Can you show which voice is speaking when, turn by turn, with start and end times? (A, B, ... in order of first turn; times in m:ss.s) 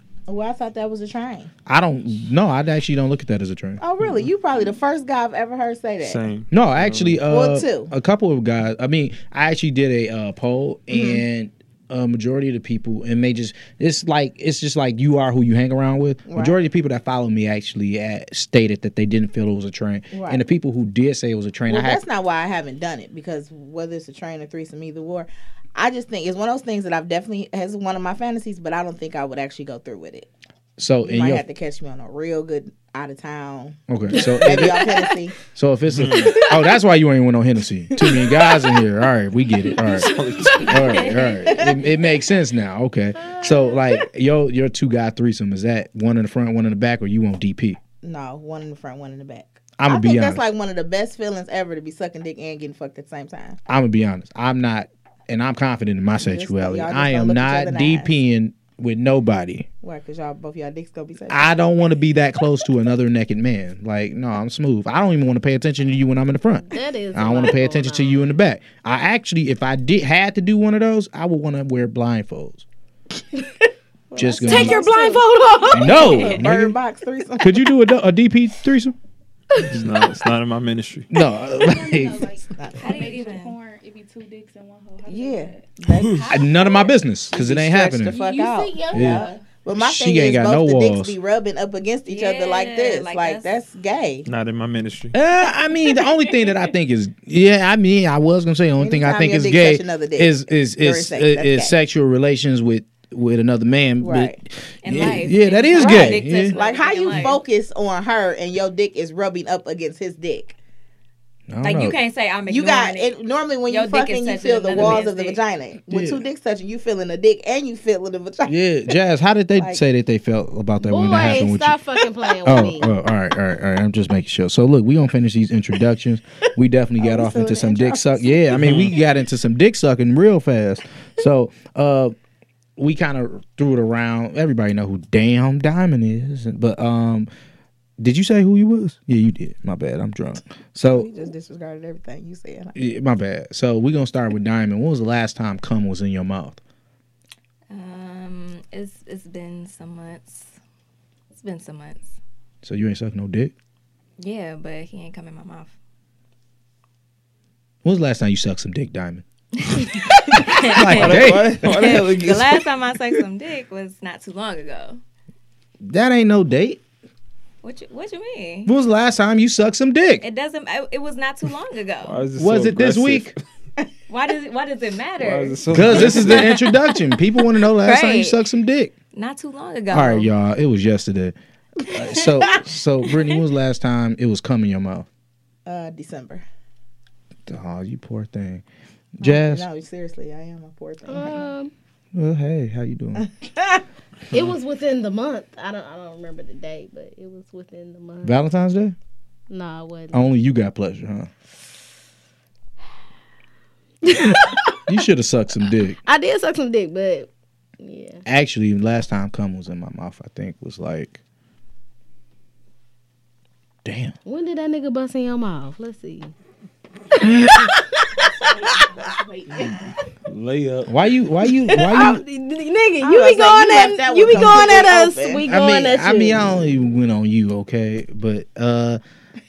0:00.3-0:01.5 A
0:01.7-0:03.8 B
0:03.8-0:06.2 A
0:06.0-0:07.2 C
0:06.5-0:22.0 B
0:07.3-0:07.9 A
0:10.9-0:11.2 A
0:16.3-0:16.6 A
0:20.1-0:20.4 A
0:21.7-0:30.3 A
0:30.8-0:31.4 B
0:31.0-0:35.4 A
0:33.9-0:34.9 B
0:35.5-0:40.1 B
0:35.9-0:36.4 C
0:36.2-0:36.7 A
0:37.9-0:38.8 A
0:40.0-0:40.9 C
0:40.6-0:47.8 B
0:40.7-0:41.4 D
0:41.4-0:41.9 A
0:43.2-0:44.0 A
0:48.0-0:53.6 A
0:49.8-0:50.4 B
0:53.7-0:59.7 B
0:56.2-0:58.1 A
0:59.8-1:01.6 A
1:01.3-1:12.6 B
1:06.7-1:08.2 E
1:14.1-1:17.7 A
1:14.2-1:14.8 B
1:14.3-1:16.3 E
1:15.7-1:16.8 B
1:17.4-1:19.0 B
1:19.6-1:21.1 C
1:19.7-1:20.0 B
1:21.1-1:22.3 B
1:21.5-1:26.9 F
1:22.6-1:23.3 A
1:22.8-1:23.6 D
1:25.1-1:26.5 A
1:25.9-1:26.3 C
1:26.3-1:28.1 B
1:27.3-1:34.3 A
1:28.1-1:29.4 F
1:28.9-1:31.2 B
1:32.1-1:33.6 D
1:34.3-1:35.2 C
1:35.1-1:46.6 B
1:38.8-1:41.8 A
1:44.0-1:44.4 A
1:44.8-1:47.4 D
1:45.7-1:50.6 A
1:51.5-1:52.0 B
1:51.6-1:53.1 D
1:52.5-1:58.9 A
1:53.7-1:55.4 D
1:55.9-1:56.2 B
1:58.5-2:01.8 B
1:59.6-1:59.8 A
2:00.8-2:02.9 E
2:02.4-2:12.2 B
2:07.0-2:08.5 A
2:08.5-2:09.0 C
2:12.8-2:17.3 B
2:18.0-2:21.1 B
2:20.8-2:22.8 A
2:22.8-2:26.6 B
2:27.7-2:30.6 D
2:31.3-2:32.2 D
2:32.6-2:33.5 B
2:34.2-2:35.7 D
2:37.8-2:39.2 B
2:39.6-2:45.0 D
2:40.4-2:41.7 B
2:40.8-2:42.7 C
2:45.8-2:46.8 B
2:47.6-2:48.7 D
2:48.7-2:50.2 B
2:50.2-2:52.2 D
2:52.0-2:53.4 C
2:52.4-2:53.3 B
2:54.1-2:58.4 D
2:55.2-2:56.6 C
2:55.7-2:58.9 B
2:59.1-3:00.3 D
2:59.9-3:05.1 B
3:02.0-3:03.4 D
3:05.7-3:06.4 A
3:07.5-3:08.6 B
3:09.2-3:09.7 B
3:09.2-3:11.5 A
3:11.1-3:11.7 E
3:12.1-3:13.3 B
3:13.2-3:13.8 A
3:14.3-3:18.4 E
3:18.2-3:19.0 B
3:19.5-3:20.2 E
3:20.1-3:21.3 B
3:24.0-3:24.8 E
3:24.9-3:26.0 B
3:26.0-3:27.3 E
3:27.8-3:28.2 E
3:28.3-3:31.2 B
3:33.8-3:34.2 B
3:34.2-3:36.3 E
3:38.5-3:39.7 F
3:39.6-3:40.9 C
3:40.9-3:42.2 B
3:41.7-3:42.1 A
3:41.9-3:46.5 E
3:43.0-3:45.5 A
3:45.4-3:49.0 B